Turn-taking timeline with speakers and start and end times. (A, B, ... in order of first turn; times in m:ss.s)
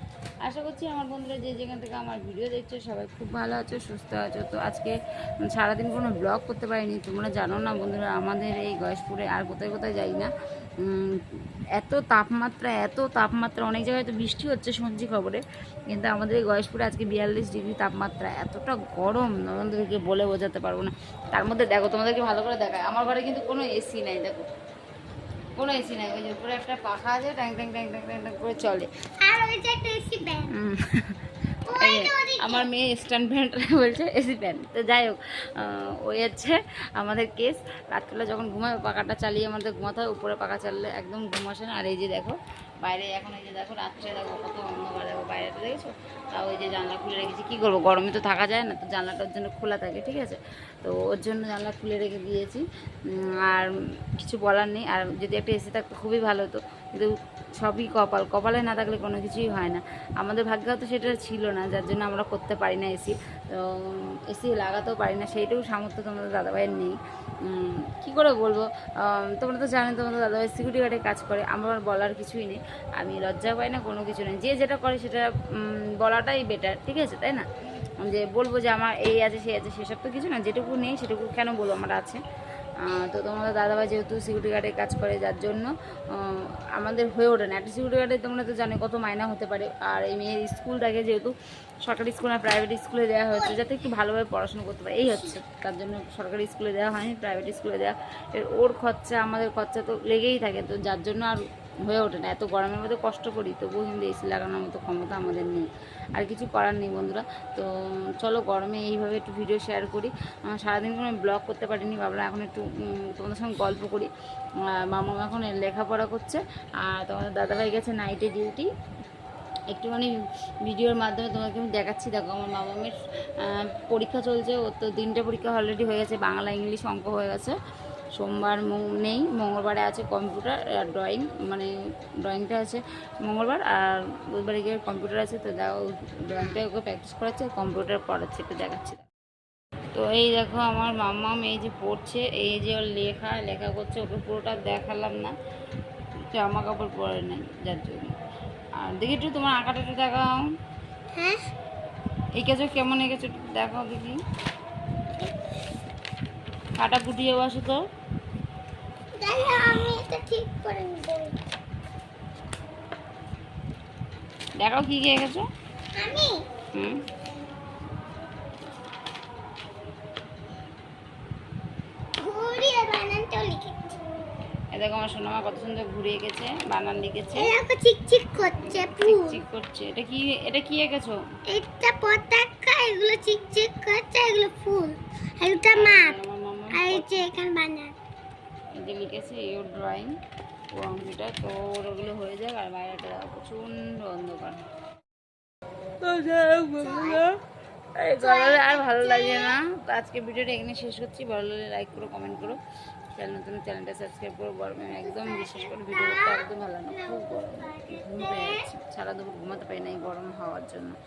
0:00.4-0:10.3 A
0:10.8-0:11.2 A
0:11.8-0:24.5 A
0:25.6-0:28.9 A
0:29.2-0:30.5 B
0:30.5-0:31.1 A
0:31.7-0:32.7 B
0:31.8-1:17.5 A
1:18.0-1:22.2 A
1:22.8-1:31.3 A
1:31.8-1:47.7 A
1:48.2-1:54.1 A
1:54.7-1:58.7 A
1:59.7-2:00.1 A
2:00.6-2:07.6 A
2:08.2-2:11.7 A
2:12.2-2:19.0 A
2:19.9-2:25.3 A
2:26.4-2:28.1 A
2:28.8-2:30.5 A
2:31.1-2:31.4 B
2:32.4-2:34.2 A
2:36.8-2:37.8 A
2:39.2-2:41.4 B
2:44.6-2:45.5 A
2:46.0-2:46.4 B
2:46.8-2:47.0 A
2:52.2-2:54.0 B
2:54.8-2:57.5 A
2:57.4-2:59.4 B
2:58.6-3:01.2 A
3:01.5-3:06.2 B
3:05.8-3:07.3 A
3:06.7-3:07.9 B
3:08.8-3:10.1 A
3:10.8-3:14.6 A
3:16.0-3:17.4 A
3:16.8-3:17.2 B
3:18.0-3:22.6 A
3:18.2-3:19.6 B
3:23.2-3:31.0 A
3:25.0-3:28.7 B